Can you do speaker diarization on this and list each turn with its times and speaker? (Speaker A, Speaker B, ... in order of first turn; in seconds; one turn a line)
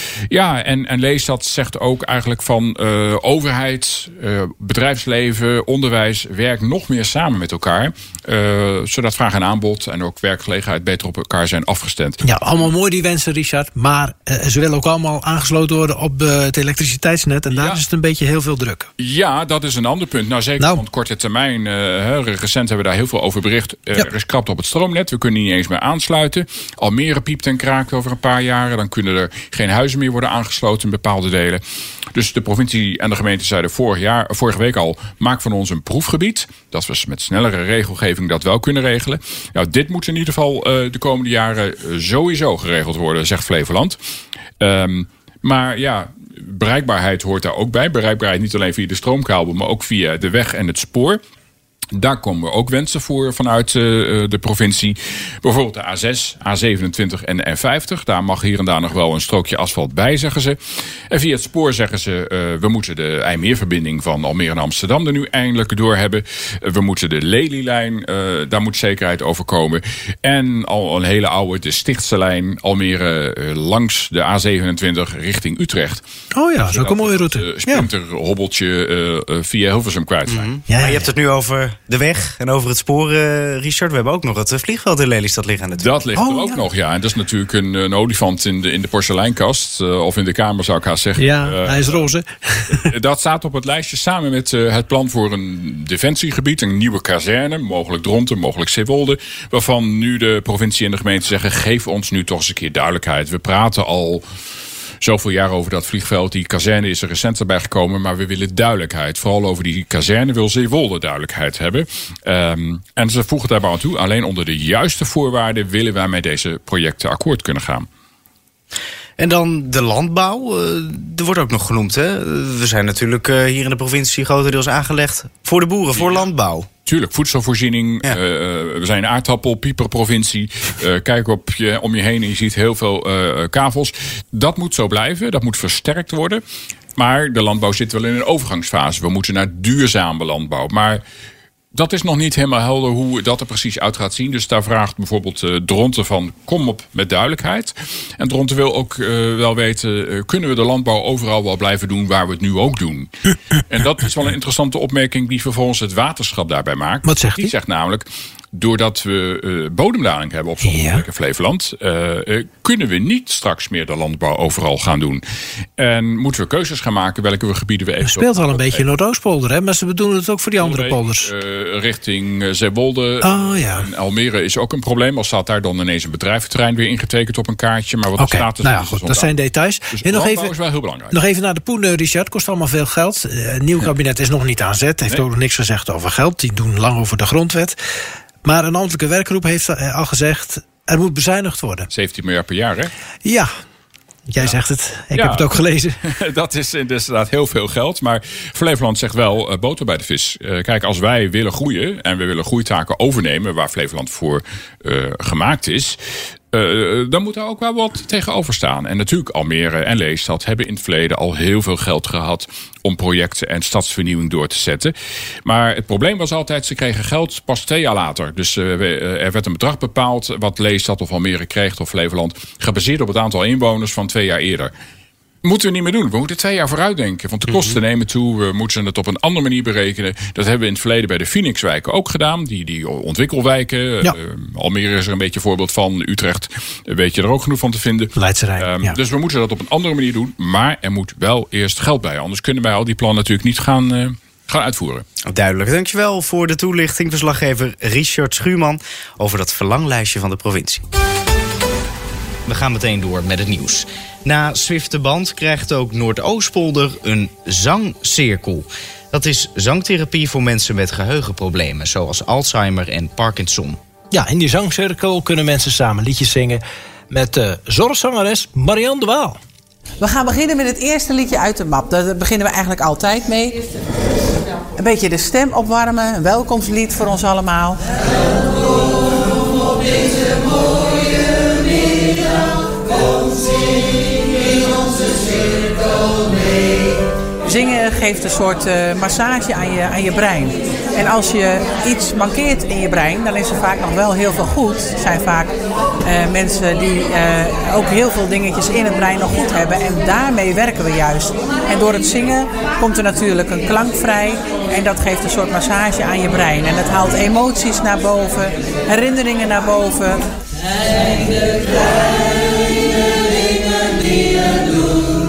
Speaker A: 0.3-12.2
Speaker B: 12.2-18.9
Speaker A: 17.5-17.8
Speaker A: 19.0-31.6
Speaker A: 32.1-44.0
Speaker A: 44.6-51.2
Speaker A: 52.0-60.6
Speaker A: 61.1-76.0
Speaker B: 76.3-77.9
Speaker A: 76.7-80.5
Speaker C: 80.3-85.9
Speaker B: 80.7-81.1
Speaker A: 85.8-92.0
Speaker B: 86.2-86.6
Speaker B: 91.2-92.9
Speaker A: 92.7-104.2
Speaker A: 105.0-117.9
Speaker C: 119.2-126.7
Speaker A: 126.0-126.3
Speaker A: 126.9-136.4
Speaker A: 137.0-141.0
Speaker A: 141.7-153.1
Speaker A: 153.7-165.2
Speaker B: 157.0-157.5
Speaker B: 160.6-161.0
Speaker A: 165.8-168.8
Speaker B: 168.0-171.3
Speaker A: 170.6-179.4
Speaker B: 173.2-173.9
Speaker B: 178.2-180.5
Speaker A: 179.9-181.2
Speaker B: 181.1-187.8
Speaker B: 188.4-191.9
Speaker A: 191.9-192.9
Speaker B: 193.2-193.5
Speaker B: 194.3-196.0
Speaker A: 195.1-195.5
Speaker A: 196.0-206.0
Speaker A: 206.5-214.9
Speaker A: 215.5-224.7
Speaker A: 225.4-245.1
Speaker B: 238.2-239.0
Speaker C: 245.3-250.8
Speaker C: 252.5-263.8
Speaker B: 264.1-269.4
Speaker D: 270.0-273.6
Speaker D: 274.8-277.8
Speaker D: 287.4-295.5
Speaker D: 296.0-310.2